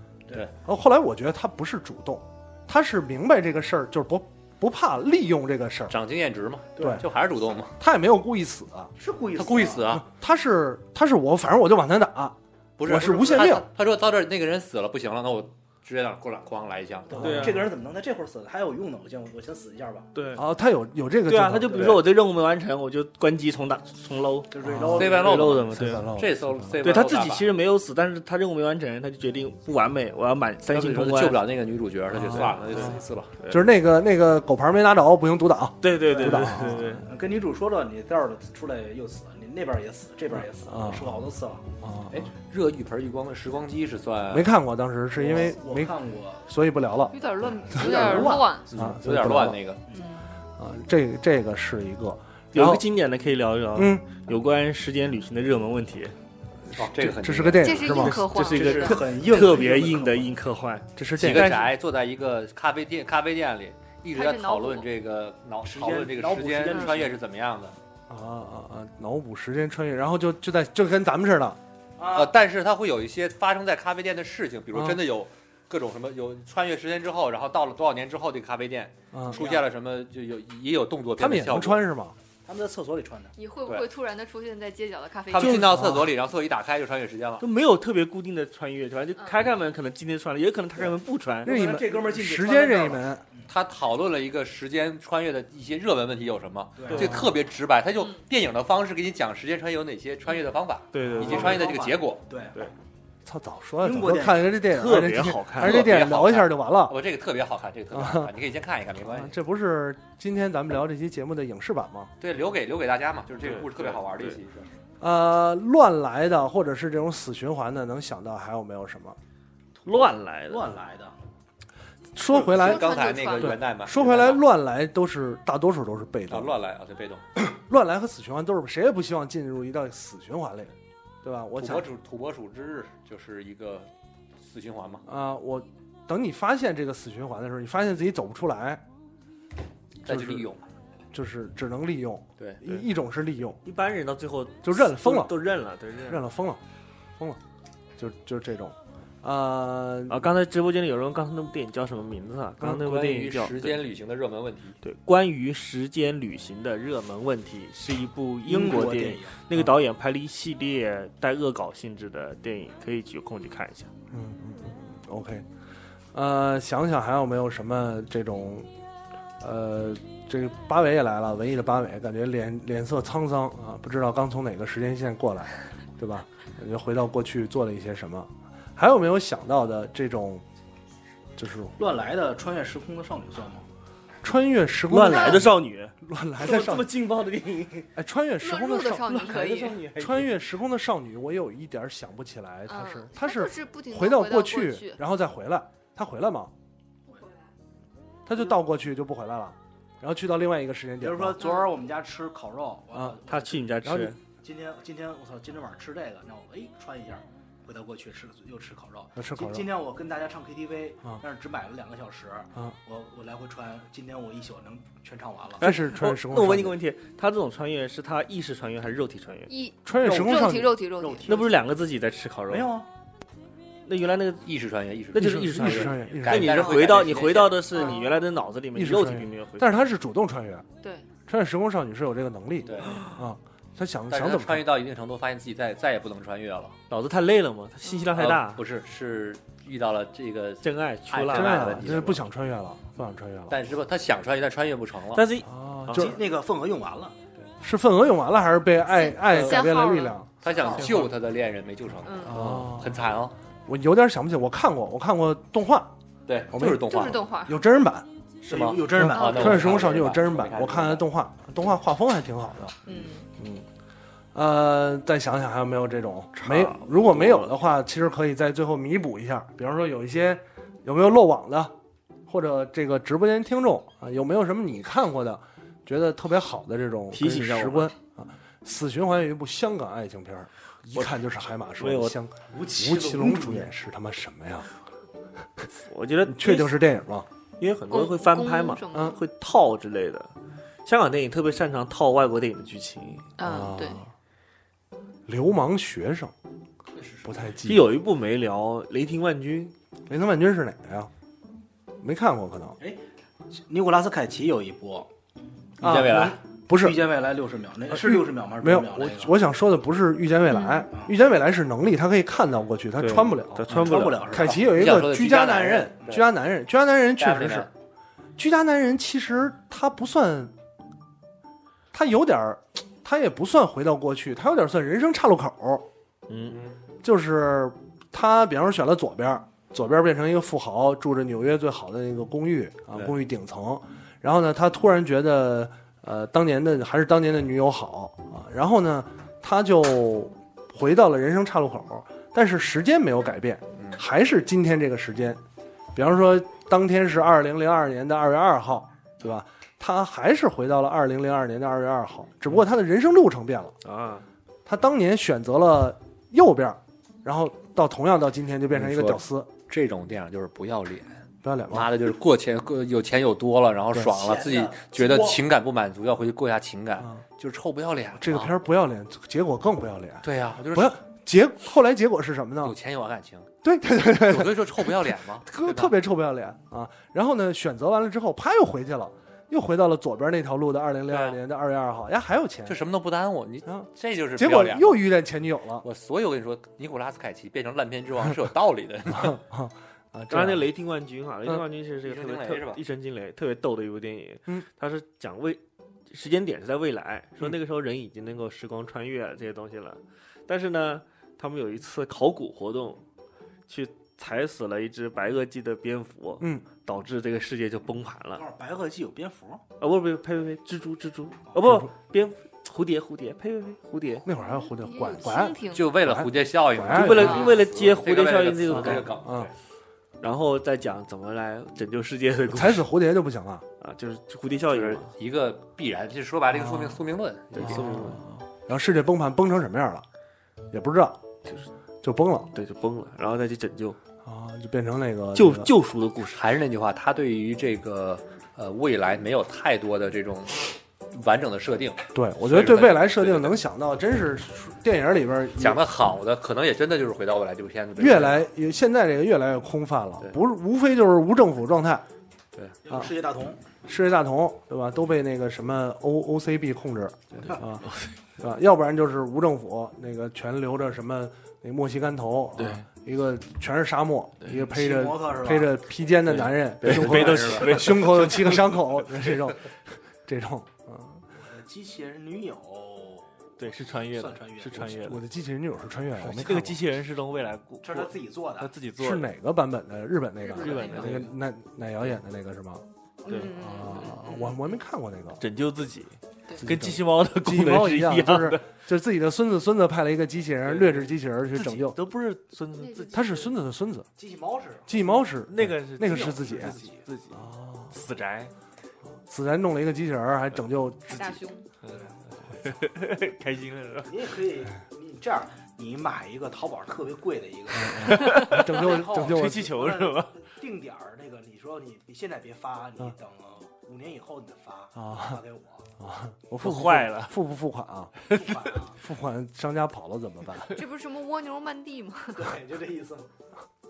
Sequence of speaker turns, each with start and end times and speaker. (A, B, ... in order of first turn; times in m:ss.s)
0:00.6-0:06.0 A
0:05.9-0:07.8 B
0:06.8-0:07.0 A
0:07.8-0:08.9 A
0:09.0-0:10.0 C
0:09.4-0:10.0 B
0:09.9-0:13.7 A
0:12.8-0:17.4 B
0:17.1-0:17.7 A
0:17.2-0:17.6 D
0:17.2-0:20.1 C
0:20.1-0:20.4 D
0:20.4-0:22.0 A
0:21.3-0:26.1 D
0:21.7-0:22.0 C
0:24.5-0:25.6 C
0:24.6-0:25.2 A
0:24.9-0:27.5 B
0:25.7-0:26.8 A
0:26.8-0:31.4 D
0:30.7-0:33.3 B
0:32.1-0:32.9 A
0:32.4-0:33.6 D
0:33.5-0:37.0 A
0:35.8-0:37.0 D
0:36.1-0:41.6 C
0:40.4-0:41.3 A
0:41.8-0:42.3 A
0:42.1-0:44.5 B
0:44.3-0:47.1 A
0:45.1-0:46.4 C
0:47.1-0:48.7 E
0:47.5-0:48.5 C
0:47.8-0:49.6 A
0:48.7-0:49.8 B
0:49.9-0:50.2 E
0:50.6-0:52.8 A
0:52.5-0:56.1 D
0:53.8-0:54.1 A
0:56.7-0:58.2 A
0:56.8-0:57.8 B
0:57.6-0:59.0 E
0:57.9-1:01.7 D
0:58.5-1:00.3 C
1:01.0-1:01.6 A
1:01.2-1:07.8 B
1:04.1-1:04.9 E
1:05.6-1:07.2 C
1:08.1-1:11.6 A
1:12.0-1:12.3 C
1:12.1-1:21.8 B
1:14.7-1:15.0 A
1:19.1-1:19.4 A
1:19.3-1:19.6 C
1:21.2-1:22.2 A
1:22.4-1:23.3 C
1:23.4-1:25.6 E
1:25.3-1:27.4 B
1:25.4-1:26.1 A
1:27.4-1:31.6 D
1:29.2-1:29.4 E
1:31.4-1:33.2 A
1:31.4-1:33.5 C
1:33.5-1:42.2 B
1:36.8-1:37.2 C
1:36.9-1:37.1 D
1:40.9-1:41.6 D
1:41.0-1:41.4 A
1:41.2-1:42.6 C
1:43.2-1:47.0 A
1:43.8-1:44.5 C
1:44.7-1:45.9 D
1:45.6-1:49.3 B
1:47.9-1:48.3 A
1:49.0-1:52.1 A
1:52.2-1:54.7 B
1:53.4-1:54.4 D
1:55.0-1:59.2 A
1:59.8-2:01.1 C
1:59.8-2:00.7 D
2:02.1-2:06.6 A
2:02.5-2:04.4 B
2:02.5-2:03.6 E
2:06.3-2:07.2 B
2:07.4-2:11.9 A
2:11.6-2:13.9 B
2:14.4-2:15.0 B
2:15.0-2:18.8 A
2:20.0-2:20.6 B
2:20.0-2:20.5 A
2:21.1-2:23.6 A
2:23.6-2:26.2 D
2:24.6-2:25.4 A
2:26.1-2:26.6 A
2:28.0-2:30.3 A
2:30.1-2:33.8 D
2:32.6-2:34.8 B
2:34.8-2:43.9 D
2:38.4-2:39.4 C
2:44.1-2:45.4 A
2:46.1-2:48.7 A
2:49.4-3:00.4 A
3:01.4-3:01.8 A
3:01.8-3:03.6 C
3:04.2-3:07.0 A
3:04.9-3:07.9 D
3:07.9-3:09.2 A
3:08.4-3:09.8 E
3:09.0-3:10.3 D
3:09.9-3:16.5 A
3:12.7-3:15.0 E
3:18.2-3:21.4 A
3:21.0-3:23.7 C
3:21.4-3:21.7 E
3:23.3-3:24.2 D
3:23.8-3:24.1 A
3:24.4-3:35.6 C
3:29.2-3:29.6 A
3:35.6-3:36.8 A
3:35.6-3:39.5 D
3:39.5-3:41.3 E
3:39.8-3:40.7 A
3:40.0-3:41.6 C
3:41.2-3:42.7 D
3:42.5-3:42.9 C
3:43.8-3:44.4 D
3:44.4-3:47.9 B
3:45.1-3:49.7 D
3:45.1-3:46.8 A
3:48.7-3:50.6 A
3:51.3-3:54.7 A
3:52.6-3:53.0 B
3:54.1-3:56.8 B
3:56.9-3:58.6 D
3:58.1-4:02.2 B
4:00.6-4:01.8 D
4:01.3-4:03.6 A
4:03.5-4:05.3 B
4:05.1-4:06.1 D
4:05.4-4:06.2 A
4:05.9-4:07.1 C
4:07.6-4:10.3 A
4:08.9-4:10.2 E
4:10.4-4:13.3 B
4:10.5-4:11.0 C
4:10.8-4:11.1 D
4:12.0-4:12.4 E
4:12.2-4:13.0 A
4:13.7-4:15.9 A
4:16.3-4:17.2 B
4:16.5-4:18.1 A
4:16.9-4:17.6 E
4:18.4-4:19.9 C
4:18.4-4:21.0 B
4:19.0-4:22.8 A
4:22.8-4:23.3 E
4:23.4-4:23.6 A
4:24.3-4:31.7 A
4:26.4-4:27.5 D
4:32.3-4:44.7 A
4:37.1-4:37.9 D
4:40.9-4:41.2 D
4:41.8-4:42.2 D
4:42.5-4:43.7 C
4:45.9-4:46.8 D
4:46.3-4:47.3 A
4:47.6-4:50.3 D
4:47.9-4:49.2 E
4:50.8-4:53.3 D
4:53.4-4:54.0 E
4:53.4-4:54.1 A
4:55.3-4:56.3 A
4:56.9-4:57.3 C
4:57.2-4:57.9 A
4:57.6-4:59.7 D
5:00.1-5:01.1 A
5:02.0-5:02.8 A
5:03.5-5:05.1 C
5:05.8-5:06.4 B
5:05.8-5:07.0 A
5:05.9-5:09.3 C
5:07.9-5:17.7 A
5:10.5-5:10.8 E
5:13.0-5:14.2 D
5:13.7-5:14.8 C
5:14.3-5:16.2 B
5:17.2-5:17.7 B
5:18.4-5:20.5 A
5:21.9-5:25.9 A
5:26.3-5:26.6 D
5:27.0-5:45.4 A
5:45.9-5:53.7 A
5:53.8-5:54.2 D
5:54.6-5:59.5 A
5:58.7-6:08.5 B
6:01.4-6:01.9 A
6:04.1-6:05.4 C
6:07.0-6:07.2 A
6:08.2-6:12.8 A
6:10.2-6:11.0 B
6:12.6-6:13.5 B
6:13.6-6:22.8 A
6:14.2-6:15.8 B
6:21.1-6:21.4 B
6:22.7-6:25.0 B
6:23.6-6:25.8 A
6:25.8-6:29.4 B
6:29.1-6:30.7 A
6:30.3-6:43.0 D
6:32.0-6:32.8 B
6:43.7-6:48.4 D
6:46.4-6:46.6 A
6:48.3-6:49.6 C
6:49.8-6:54.3 D
6:51.6-6:51.9 A
6:54.2-6:57.4 A
6:54.5-6:55.8 E
6:55.7-6:59.5 B
6:56.8-6:59.1 D
6:57.1-6:57.6 E
6:58.7-6:59.5 A
7:00.2-7:02.9 D
7:02.5-7:03.6 A
7:03.8-7:05.1 D
7:04.7-7:07.8 B
7:06.5-7:07.0 A
7:07.5-7:10.0 A
7:07.5-7:08.2 D
7:10.7-7:11.2 A
7:12.0-7:12.5 A
7:12.5-7:14.0 D
7:14.2-7:15.7 A
7:15.3-7:16.4 D
7:16.3-7:23.6 B
7:22.1-7:25.8 A
7:25.6-7:28.5 B
7:28.0-7:32.0 A
7:32.8-7:33.6 C
7:33.8-7:37.8 A
7:37.8-7:38.1 D
7:38.4-7:51.2 A
7:42.6-7:42.9 D
7:44.6-7:45.8 C
7:46.3-7:48.8 D
7:46.8-7:47.8 B
7:51.3-7:55.0 C
7:53.6-7:55.2 D
7:54.8-7:56.8 A
7:56.2-7:59.3 D
7:57.8-7:58.7 C
7:59.0-8:05.4 A
8:00.5-8:01.3 C
8:00.6-8:01.3 D
8:03.3-8:03.5 D
8:03.3-8:04.4 E
8:05.4-8:08.7 D
8:06.6-8:12.0 A
8:10.6-8:13.5 D
8:12.7-8:13.3 E
8:13.1-8:14.1 A
8:14.2-8:15.0 C
8:14.9-8:16.8 A
8:15.1-8:18.5 D
8:16.0-8:17.0 C
8:17.3-8:17.9 A
8:19.1-8:21.4 A
8:21.1-8:21.6 E
8:21.8-8:24.2 D
8:24.0-8:35.9 C
8:27.8-8:29.8 A
8:28.1-8:30.4 D
8:35.0-8:35.4 A
8:36.0-8:38.2 A
8:36.6-8:37.3 D
8:38.3-8:39.0 C
8:39.0-8:40.8 A
8:40.7-8:42.5 E
8:42.3-8:43.3 C